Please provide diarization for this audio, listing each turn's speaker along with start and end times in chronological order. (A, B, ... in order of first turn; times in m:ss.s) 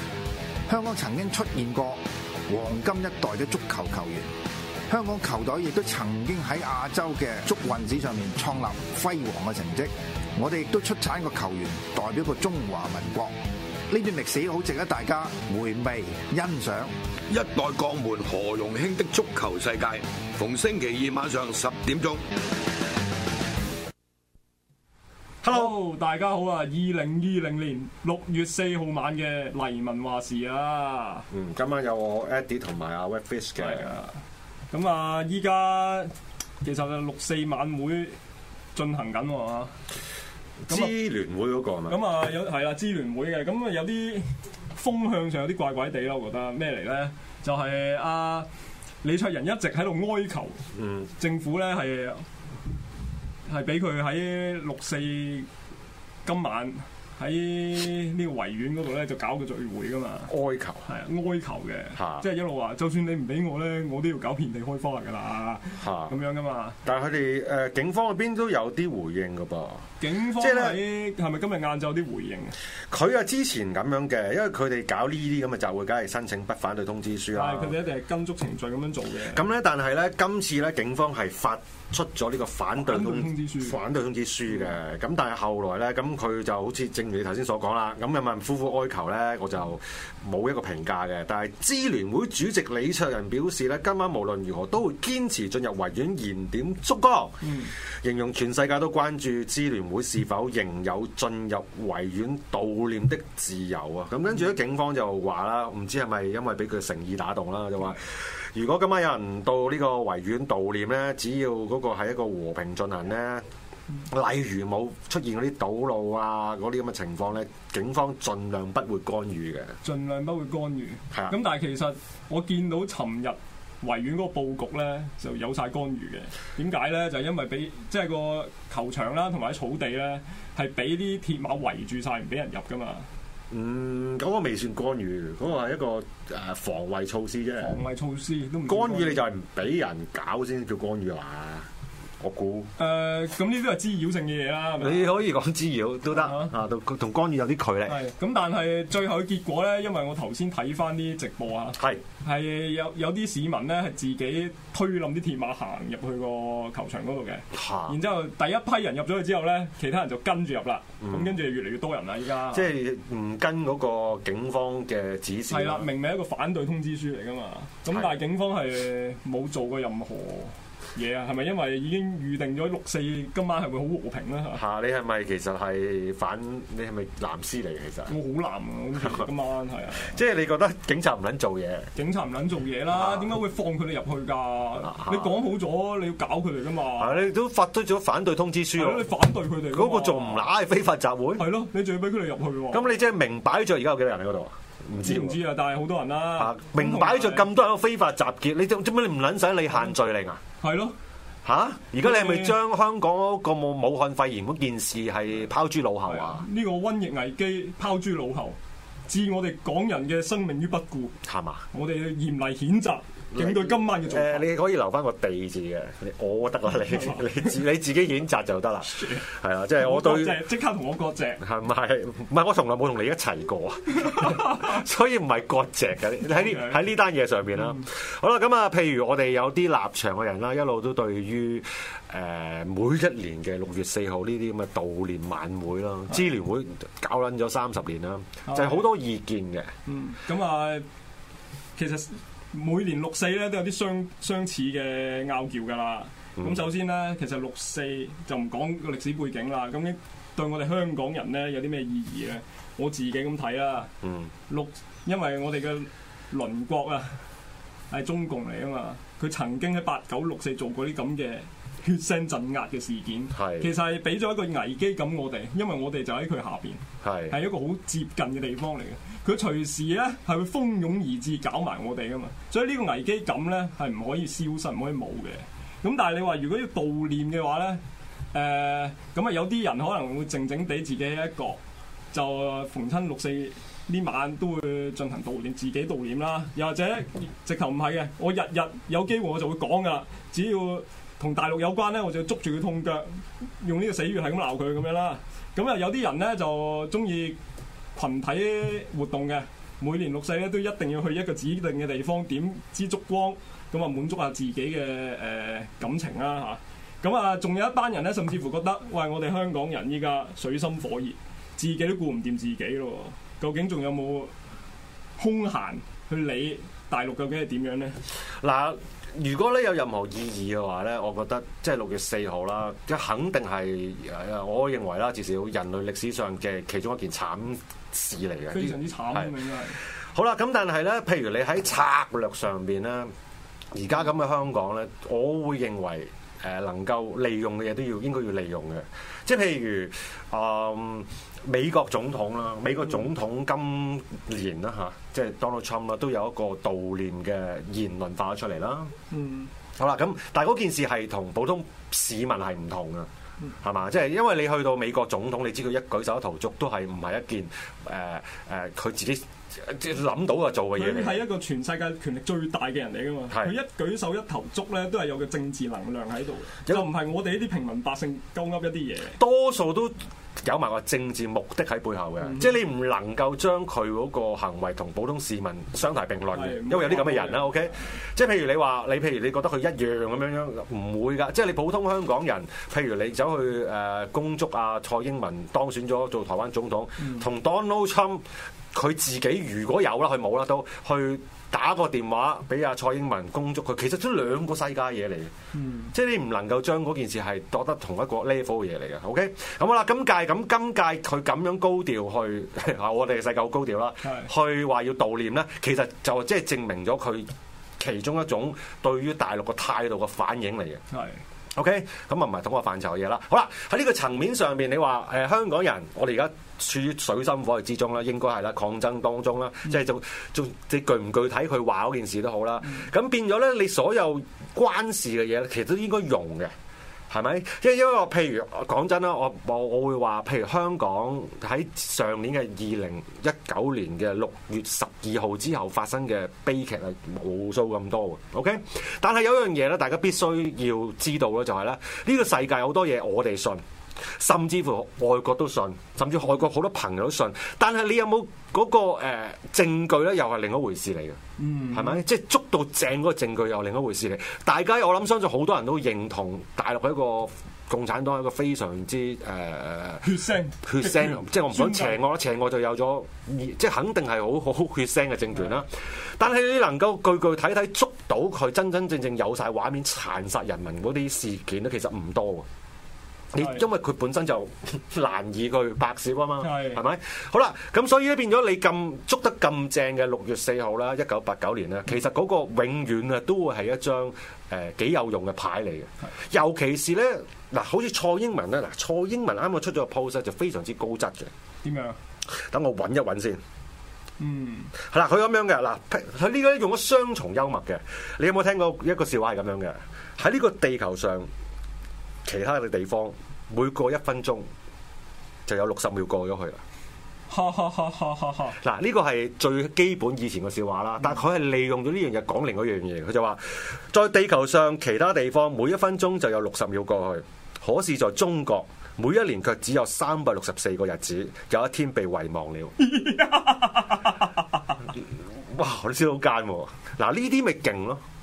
0:00.7-0:04.3 A
0:04.9-0:13.4 A
0:13.9-0:16.9 A
0:17.3-0:22.2 B
0:25.4-0:25.7 C
0:25.5-0:31.3 D
0:31.3-0:33.8 C
0:33.6-0:34.2 D
0:34.7-0:38.2 D
0:38.7-0:39.7 D
0:40.6-0:42.0 C
0:41.9-0:48.5 D
0:49.0-0:50.6 D
0:50.7-0:51.1 C
0:51.2-0:52.2 D
0:53.5-0:55.5 D
0:56.2-1:00.3 D
1:00.3-1:00.9 C
1:00.8-1:06.8 D
1:02.0-1:02.2 C
1:05.8-1:06.1 C
1:06.8-1:10.8 C
1:10.0-1:12.5 D
1:12.9-1:17.8 C
1:17.3-1:19.4 D
1:19.3-1:37.4 C
1:22.8-1:23.8 D
1:37.4-1:37.7 D
1:38.0-1:53.4 C
1:54.1-1:59.8 C
1:59.8-2:13.1 D
2:13.5-2:17.8 C
2:17.6-2:19.2 D
2:18.6-2:21.7 C
2:22.2-2:22.7 C
2:22.8-2:25.1 D
2:24.8-2:28.0 C
2:26.1-2:26.5 D
2:27.9-2:42.7 D
2:31.8-2:32.0 C
2:37.5-2:38.0 C
2:41.0-2:41.3 C
2:42.5-2:45.9 C
2:45.5-2:54.6 D
2:47.9-2:48.2 C
2:54.5-2:58.1 C
2:58.1-3:00.2 D
2:59.0-2:59.3 C
3:00.1-3:01.9 C
3:01.9-3:07.2 D
3:02.9-3:03.3 C
3:04.8-3:05.4 C
3:07.0-3:09.1 C
3:08.8-3:10.5 D
3:09.7-3:11.5 C
3:11.4-3:12.9 D
3:12.7-3:15.4 C
3:15.0-3:17.5 D
3:16.4-3:20.4 C
3:20.6-3:21.0 D
3:21.4-3:26.4 C
3:22.0-3:22.6 D
3:26.0-3:31.2 D
3:31.2-3:31.6 C
3:31.7-3:34.5 D
3:33.3-3:40.4 C
3:36.9-3:37.5 D
3:38.9-3:41.4 D
3:41.4-3:59.7 C
3:44.0-3:44.7 D
3:46.3-3:46.8 D
3:58.4-3:58.8 D
3:59.9-4:00.8 D
4:01.8-4:13.9 D
4:06.4-4:06.6 C
4:14.0-4:14.3 C
4:14.5-4:17.1 D
4:17.9-4:37.8 D
4:23.3-4:23.7 C
4:27.0-4:27.4 C
4:38.3-4:41.6 D
4:42.1-4:57.4 D
4:57.9-5:14.3 D
5:15.2-5:18.0 D
5:18.4-5:29.3 C
5:28.5-5:29.8 D
5:30.1-5:33.1 C
5:33.7-5:48.9 C
5:49.1-5:49.5 D
5:49.8-5:53.1 C
5:53.6-6:01.2 C
6:00.7-6:09.2 D
6:09.2-6:35.3 C
6:12.2-6:12.6 D
6:16.3-6:17.9 D
6:27.0-6:27.2 D
6:35.5-6:35.9 D
6:35.9-6:50.8 C
6:44.0-6:44.3 D
6:50.9-6:51.2 D
6:51.5-7:06.5 C
7:07.1-7:31.2 C
7:31.4-7:32.0 D
7:31.7-7:40.0 C
7:40.0-7:42.0 D
7:40.6-7:52.5 C
7:53.3-8:11.3 C
7:53.4-7:53.6 D
7:56.4-7:56.8 D
8:11.6-8:12.0 D
8:12.3-8:13.4 C
8:14.2-8:14.7 D
8:14.8-8:21.3 C
8:22.2-8:24.5 C
8:25.4-8:26.6 C
8:27.3-8:28.6 D
8:28.6-8:42.7 C
8:42.8-8:44.4 D
8:45.0-8:48.0 C